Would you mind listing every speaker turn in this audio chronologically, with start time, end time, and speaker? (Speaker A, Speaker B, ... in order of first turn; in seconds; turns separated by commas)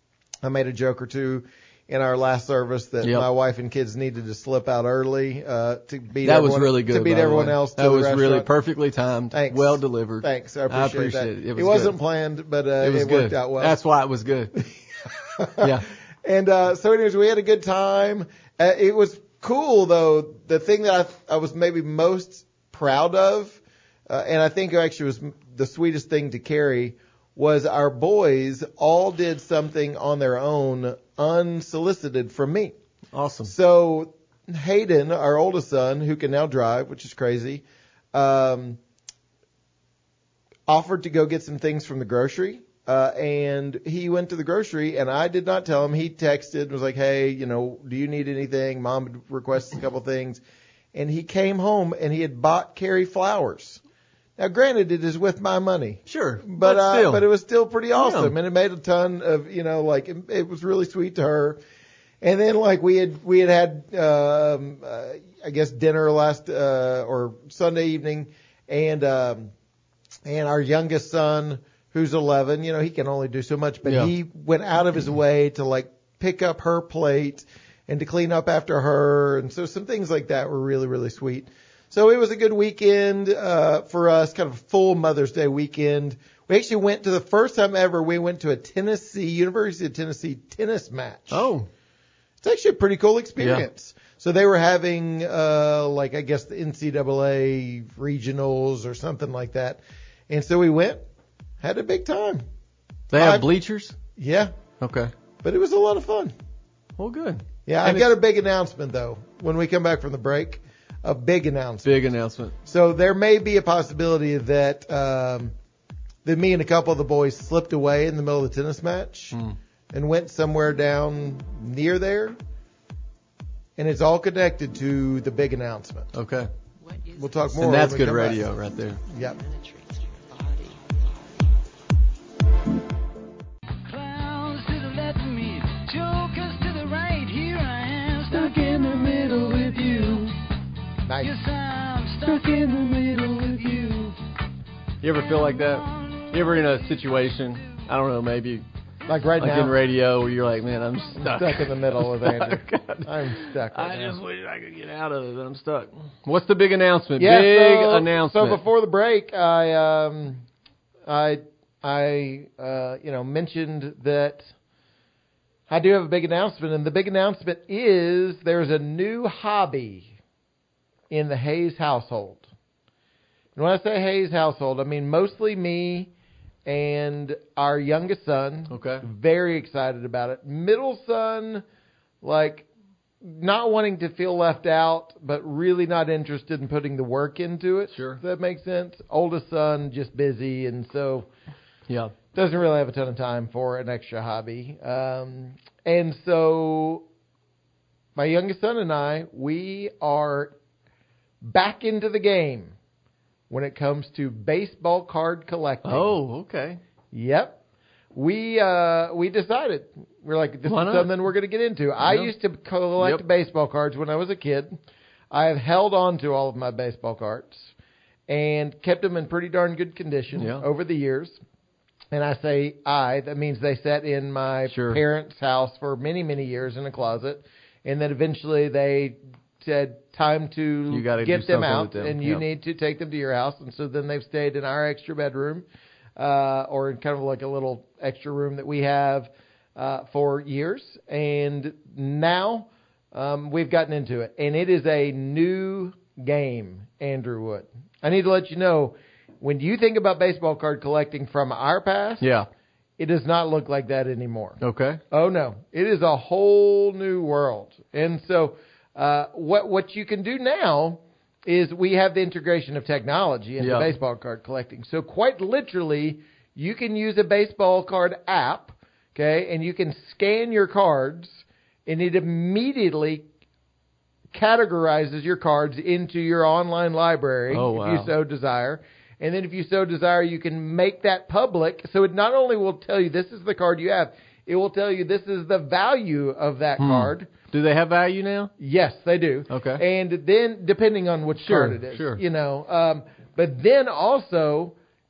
Speaker A: 0.4-8.5, Speaker B: 6.2-12.0, Speaker A: 9.3-13.8, Speaker B: 12.8-14.5, Speaker A: 15.4-32.8, Speaker B: 15.6-15.9, Speaker B: 33.1-33.5, Speaker A: 33.5-38.8, Speaker A: 40.7-50.4, Speaker A: 50.9-53.8, Speaker A: 54.4-61.6, Speaker B: 56.1-57.2, Speaker B: 58.0-58.3, Speaker A: 62.2-69.5, Speaker A: 70.2-91.5, Speaker B: 73.9-74.1, Speaker B: 91.3-91.7, Speaker A: 92.4-101.0, Speaker B: 93.4-93.7, Speaker A: 101.6-102.4, Speaker B: 103.1-104.0, Speaker A: 103.2-103.5, Speaker A: 104.2-104.5, Speaker B: 104.8-105.1, Speaker A: 105.4-106.3, Speaker B: 107.0-108.1, Speaker A: 107.7-111.9, Speaker B: 111.8-112.5, Speaker A: 112.7-115.5, Speaker A: 116.2-119.4, Speaker A: 119.9-122.4, Speaker A: 123.8-126.1, Speaker B: 126.1-126.5, Speaker A: 127.1-128.5, Speaker B: 127.5-129.0, Speaker A: 129.1-129.4, Speaker C: 129.7-130.8, Speaker C: 133.9-140.4, Speaker B: 139.0-139.4, Speaker A: 141.1-141.3, Speaker C: 141.2-144.2, Speaker B: 145.0-148.7, Speaker C: 145.2-146.9, Speaker A: 149.1-149.8, Speaker B: 149.4-158.6, Speaker A: 151.2-154.2, Speaker A: 157.2-160.4, Speaker A: 161.1-164.5, Speaker A: 165.7-170.1, Speaker A: 171.1-172.5, Speaker A: 173.6-176.1, Speaker A: 176.7-181.7, Speaker B: 178.7-179.1, Speaker A: 182.2-182.7, Speaker A: 183.2-191.3, Speaker B: 187.9-188.2, Speaker B: 191.9-192.1, Speaker A: 192.3-197.1, Speaker A: 198.2-200.6, Speaker A: 201.4-202.8, Speaker A: 203.5-206.1, Speaker B: 205.8-206.8, Speaker A: 207.1-207.6, Speaker A: 208.1-214.8, Speaker B: 210.7-211.1, Speaker B: 212.0-212.3, Speaker A: 215.3-217.7, Speaker A: 218.3-221.4, Speaker B: 220.4-220.7, Speaker A: 222.1-235.7, Speaker B: 224.7-225.0, Speaker B: 230.9-232.4, Speaker A: 236.2-252.3, Speaker B: 252.2-252.5, Speaker A: 253.0-254.6, Speaker B: 254.6-255.0, Speaker A: 255.1-273.3, Speaker B: 263.6-263.9, Speaker A: 274.3-287.3, Speaker B: 277.5-278.1, Speaker B: 286.8-288.5, Speaker A: 288.6-294.8, Speaker B: 289.5-289.8, Speaker B: 291.4-292.2